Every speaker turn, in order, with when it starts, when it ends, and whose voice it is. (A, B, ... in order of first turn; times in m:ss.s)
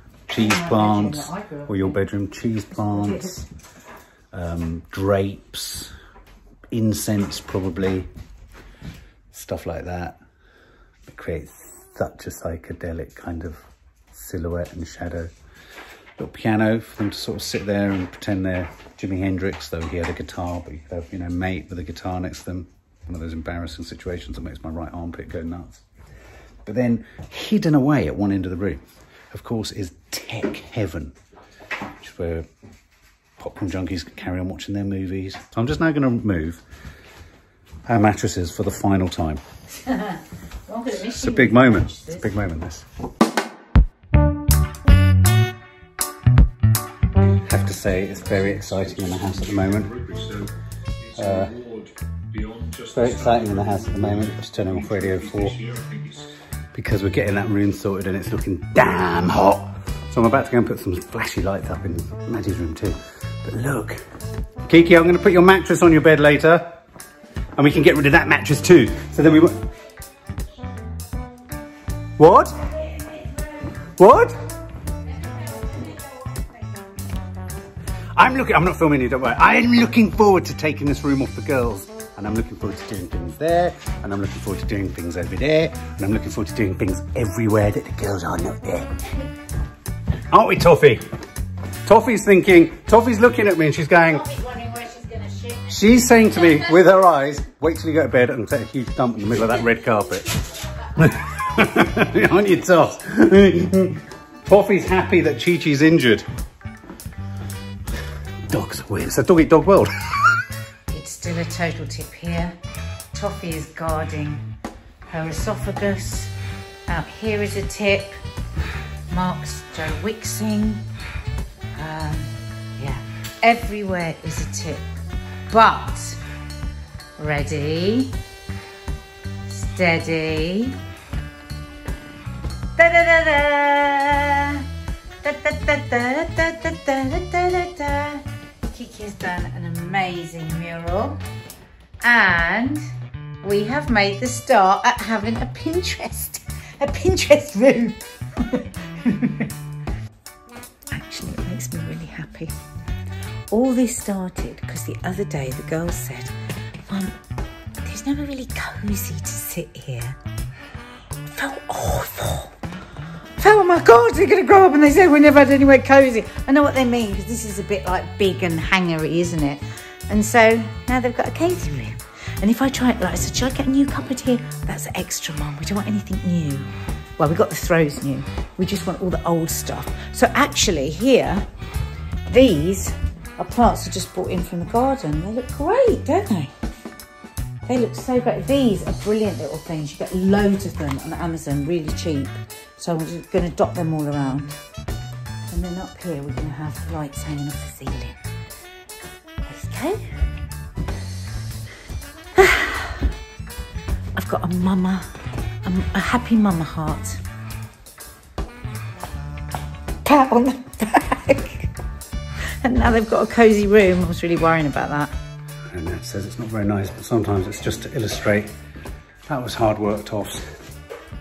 0:00.3-0:03.4 A
0:00.3-0:02.0 B
0:02.7-0:03.4 B
0:04.3-0:05.9 A
0:06.7-0:08.1 A
0:09.3-0:10.2 A
0:11.1-0:15.3 A
0:16.2-0:25.8 A
0:26.6-0:31.2 A
0:32.0-0:32.5 A
0:33.4-0:36.6 A
0:37.8-0:39.4 A
0:39.7-0:42.2 B
0:41.0-0:42.9 A
0:47.4-0:50.5 A
0:51.1-0:51.8 A
0:52.6-0:56.2 A
0:56.7-1:04.0 A
1:04.6-1:06.8 A
1:07.6-1:09.6 A
1:12.2-1:12.6 A
1:12.9-1:13.4 B
1:14.0-1:14.4 A
1:15.4-1:16.4 B
1:18.1-1:29.0 A
1:30.3-1:31.1 A
1:31.8-1:34.2 A
1:34.0-1:36.6 B
1:35.7-1:40.4 A
1:41.0-1:46.3 A
1:48.5-1:50.4 A
1:50.9-1:52.6 B
1:53.1-1:54.4 B
1:55.1-1:56.3 B
1:56.9-1:58.2 B
1:59.1-2:00.8 B
2:01.7-2:06.2 B
2:07.2-2:08.2 B
2:09.5-2:10.8 B
2:12.8-2:14.7 B
2:15.2-2:21.2 B
2:22.0-2:22.9 B
2:23.4-2:29.5 B
2:30.9-2:32.5 B
2:33.5-2:37.2 B
2:37.8-2:40.2 B
2:41.3-2:42.5 B
2:43.4-3:01.5 B
3:02.3-3:06.5 B
3:07.6-3:14.6 B
3:15.5-3:18.2 B
3:19.4-3:20.2 B
3:22.3-3:23.1 B
3:24.2-3:27.2 B
3:30.0-3:31.7 B
3:32.5-3:35.1 B
3:35.6-3:38.5 A
3:39.2-3:40.5 A